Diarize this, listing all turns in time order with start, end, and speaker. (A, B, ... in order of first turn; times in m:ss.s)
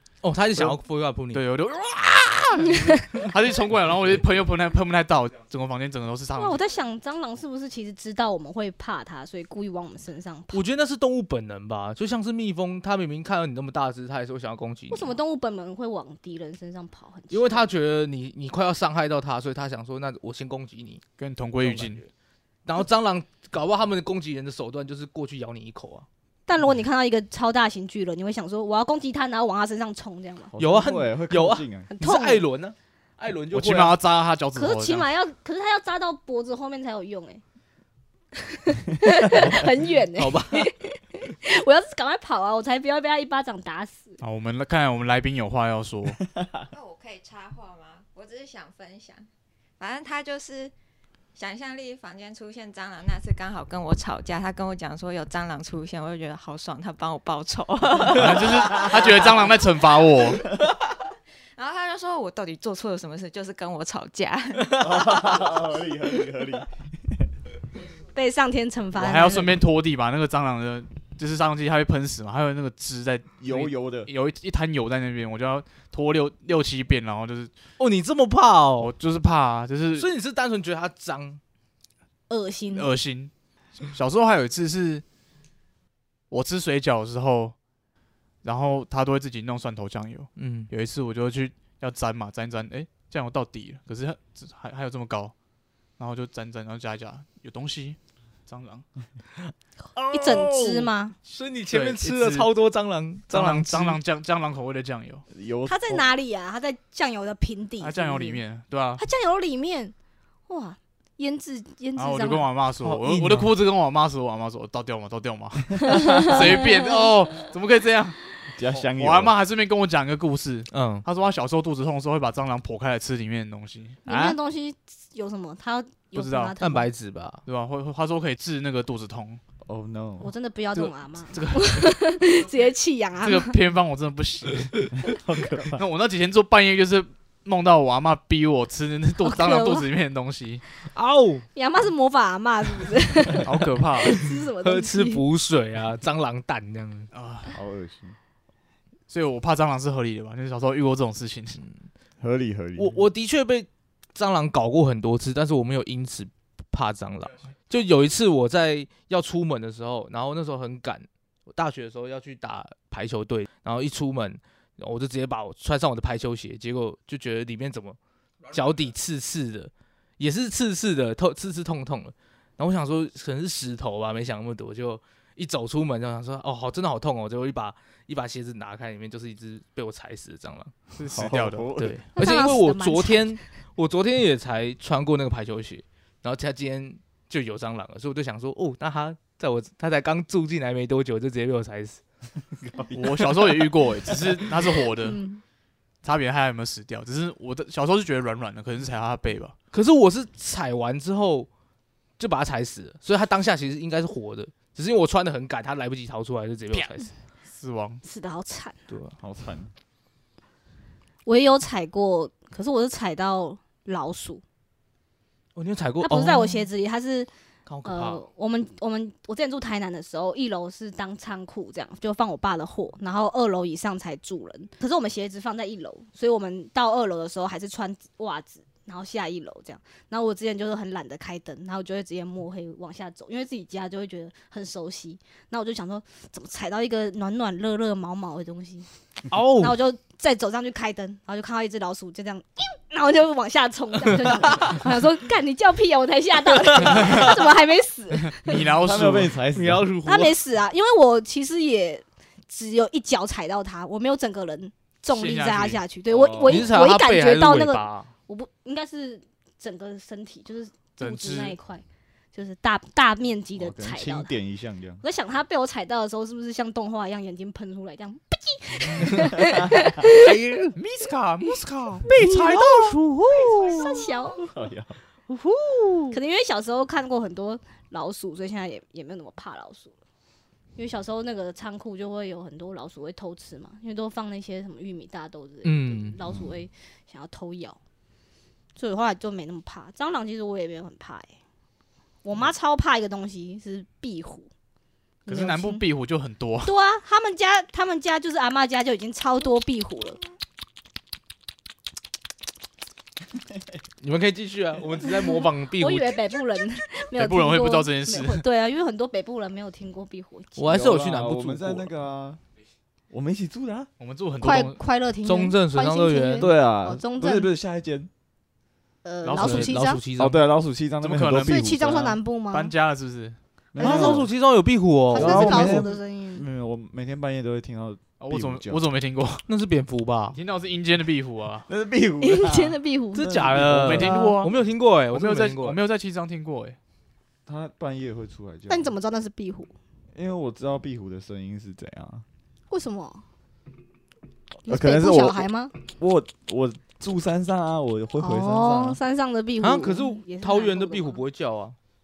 0:00.2-0:01.5 A
0:01.3-0:06.6 B
0:02.6-0:03.0 C
0:06.3-0:10.6 C
0:10.5-0:15.2 A
0:14.9-0:17.7 C
0:17.3-0:21.0 A
0:21.2-0:22.0 B
0:21.6-0:22.1 A
0:22.6-0:26.0 A
0:26.5-0:30.5 C
0:30.5-0:31.9 D
0:30.6-0:34.0 A
0:31.9-0:32.4 C
0:33.5-0:35.1 B
0:34.5-0:37.4 C
0:38.4-0:44.2 C
0:40.2-0:40.7 A
0:44.2-0:46.2 B
0:46.3-0:46.6 D
0:46.7-0:49.3 E
0:49.8-0:50.7 E
0:51.3-1:06.2 E
0:58.1-1:00.5 B
1:04.8-1:06.7 D
1:08.1-1:09.6 C
1:09.0-1:17.5 B
1:13.4-1:14.1 D
1:17.8-1:18.9 A
1:18.8-1:20.1 B
1:20.0-1:21.4 A
1:22.3-1:22.9 C
1:22.7-1:23.3 B
1:23.8-1:25.0 B
1:26.3-1:27.6 B
1:28.4-1:35.3 B
1:30.4-1:30.7 A
1:36.0-1:38.8 B
1:39.9-1:44.0 A
1:40.1-1:41.1 C
1:41.7-1:42.5 B
1:43.3-1:45.2 B
1:45.3-1:46.0 D
1:45.6-1:48.4 C
1:47.8-1:49.0 B
1:49.0-1:49.9 C
1:50.5-1:52.5 C
1:52.0-2:04.4 B
1:52.8-1:53.5 A
1:55.8-1:57.5 C
1:58.6-1:59.3 D
2:00.7-2:01.0 A
2:04.0-2:06.9 C
2:06.1-2:06.5 B
2:06.6-2:07.4 A
2:07.4-2:09.4 B
2:09.6-2:10.3 D
2:10.2-2:13.6 C
2:10.7-2:11.9 B
2:13.2-2:14.9 B
2:15.1-2:15.8 D
2:15.7-2:20.6 B
2:19.2-2:19.9 C
2:20.9-2:21.4 A
2:21.5-2:25.2 C
2:23.4-2:24.2 B
2:24.1-2:27.1 A
2:27.1-2:27.5 B
2:27.5-2:28.2 D
2:29.1-2:31.6 B
2:32.2-2:33.0 D
2:32.8-2:48.0 A
2:48.5-3:12.0 A
3:00.9-3:01.7 B
3:01.1-3:02.0 D
3:02.2-3:03.3 C
3:12.6-3:13.6 D
3:12.9-3:15.2 B
3:15.0-3:15.4 C
3:16.0-3:19.5 B
3:19.7-3:21.5 A
3:22.2-3:27.1 A
3:26.7-3:28.0 B
3:28.0-3:28.8 C
3:29.0-3:29.7 D
3:31.2-3:34.4 C
3:35.6-3:36.7 A
3:36.0-3:37.3 C
3:37.6-3:38.3 A
3:37.8-3:58.9 C
3:59.3-3:59.8 A
3:59.6-4:08.5 C
4:06.5-4:07.3 A
4:06.9-4:07.4 B
4:08.3-4:09.4 B
4:08.7-4:09.8 D
4:09.5-4:10.3 A
4:10.0-4:21.8 C
4:15.1-4:15.8 B
4:16.1-4:16.7 D
4:16.4-4:18.1 A
4:21.0-4:21.6 B
4:22.3-4:24.3 C
4:23.6-4:25.0 D
4:25.0-4:30.2 C
4:29.4-4:30.3 D
4:30.7-4:33.7 B
4:32.1-4:34.1 A
4:33.6-4:34.4 C
4:34.4-4:35.0 D
4:35.3-4:36.2 A
4:36.1-4:39.9 C
4:40.8-4:47.8 C
4:45.6-4:46.2 A
4:46.3-4:46.6 D
4:48.8-4:51.3 C
4:52.2-4:54.5 C
4:55.2-4:55.8 C
4:55.3-4:56.7 B
4:56.6-5:00.2 C
5:04.0-5:06.3 A
5:05.3-5:10.6 C
5:07.1-5:08.4 B
5:10.6-5:11.9 A
5:10.7-5:12.4 D
5:13.1-5:13.9 D
5:14.0-5:14.8 B
5:14.4-5:17.5 C
5:15.2-5:16.5 A
5:16.4-5:18.1 D
5:19.0-5:20.0 C
5:19.2-5:19.8 B
5:19.3-5:20.4 A
5:20.2-5:22.2 D
5:21.0-5:21.8 B
5:21.4-5:22.7 C
5:22.5-5:23.4 B
5:23.7-5:24.3 D
5:23.8-5:25.8 A
5:23.8-5:24.2 C
5:25.1-5:26.4 C
5:25.1-5:28.8 D
5:28.2-5:29.4 B
5:29.5-5:30.4 A
5:30.3-5:31.7 B
5:31.7-5:34.1 D
5:32.2-5:33.3 C
5:33.1-5:35.8 A
5:33.8-5:34.5 B
5:33.9-5:34.4 C
5:35.1-5:36.8 B
5:37.4-5:38.9 D
5:38.7-5:39.7 C
5:40.1-5:42.2 D
5:42.7-5:43.2 C
5:44.6-5:49.0 D
5:44.6-5:45.7 C
5:48.2-5:51.2 C
5:49.6-5:51.8 A